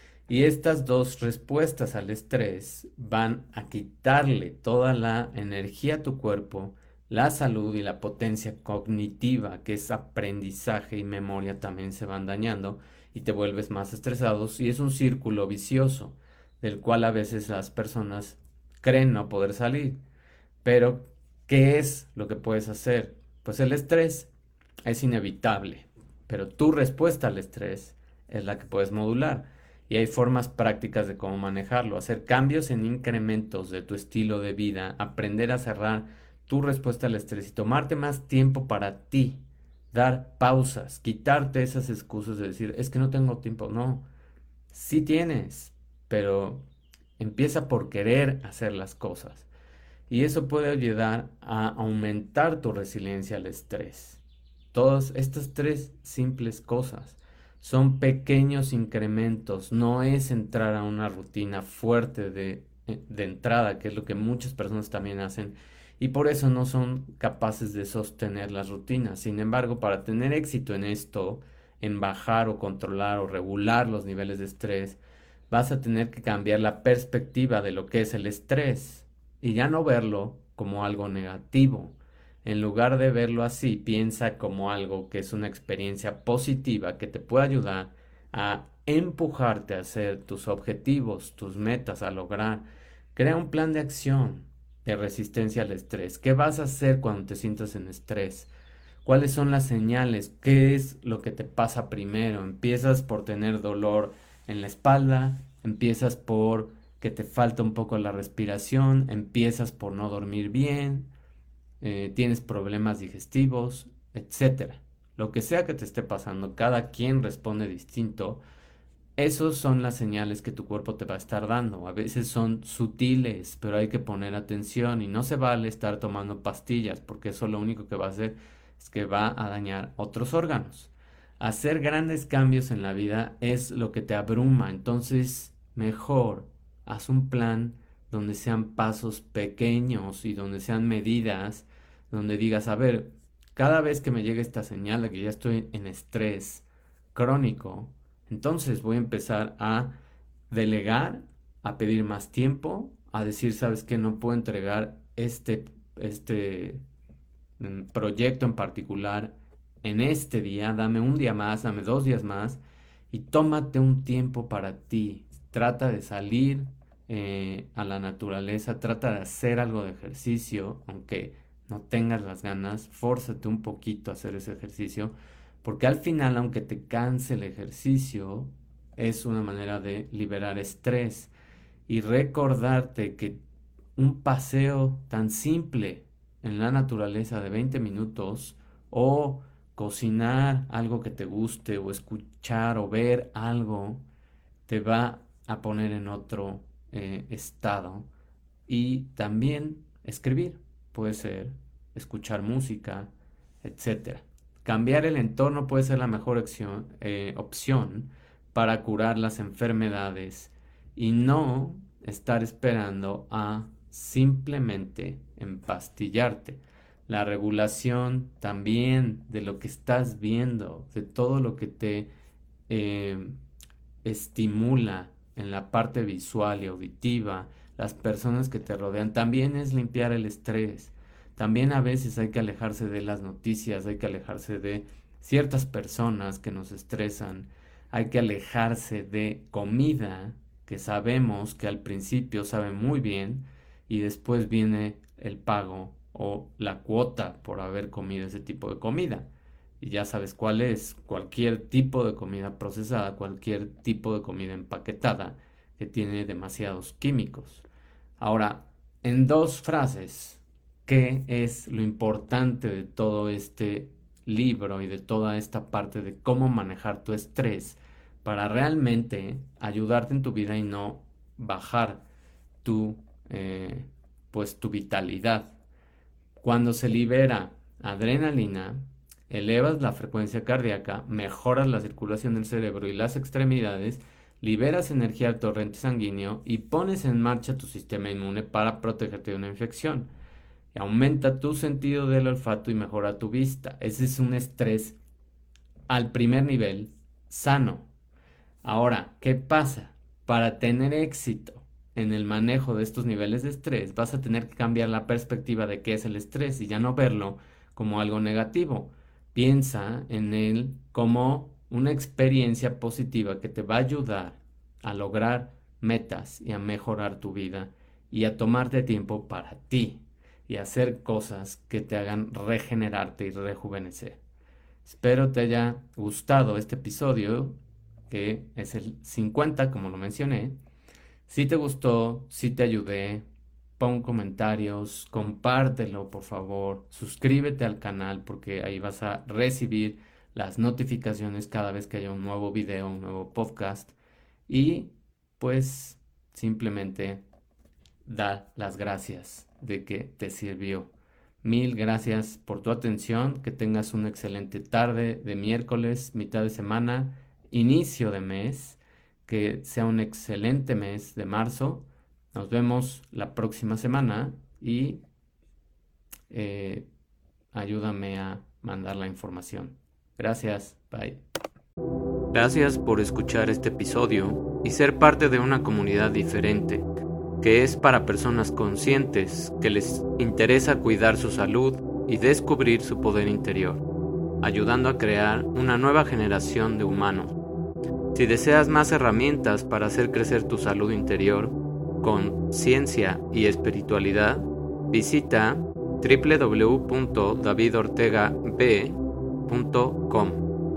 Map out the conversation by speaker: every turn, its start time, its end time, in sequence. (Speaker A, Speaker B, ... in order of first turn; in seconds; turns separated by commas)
Speaker A: 0.3-20.0, Speaker A: 20.6-24.3, Speaker A: 24.9-39.4, Speaker A: 39.9-44.0, Speaker A: 44.7-46.6, Speaker A: 47.2-49.5, Speaker A: 50.1-54.2, Speaker A: 54.7-98.5, Speaker A: 99.0-111.1, Speaker A: 111.8-118.4, Speaker A: 119.2-149.9, Speaker A: 150.5-156.8, Speaker A: 157.6-162.6, Speaker A: 163.1-181.3, Speaker A: 181.9-183.4, Speaker A: 183.9-194.0, Speaker A: 194.7-198.1, Speaker A: 198.7-203.1, Speaker A: 203.6-222.1, Speaker A: 222.7-223.3, Speaker A: 224.0-249.3, Speaker A: 249.8-257.6, Speaker A: 258.2-272.0, Speaker A: 272.6-275.5, Speaker A: 276.4-290.1, Speaker A: 290.7-294.9, Speaker A: 295.9-297.9, Speaker A: 298.6-324.2, Speaker A: 324.8-327.6, Speaker A: 328.1-330.6, Speaker A: 331.3-333.2, Speaker A: 333.8-343.9, Speaker A: 344.5-347.2, Speaker A: 348.1-350.9, Speaker A: 351.4-365.0, Speaker A: 366.3-366.9, Speaker A: 367.5-371.2, Speaker A: 372.3-376.9, Speaker A: 377.4-383.8, Speaker A: 384.4-387.4, Speaker A: 388.1-400.4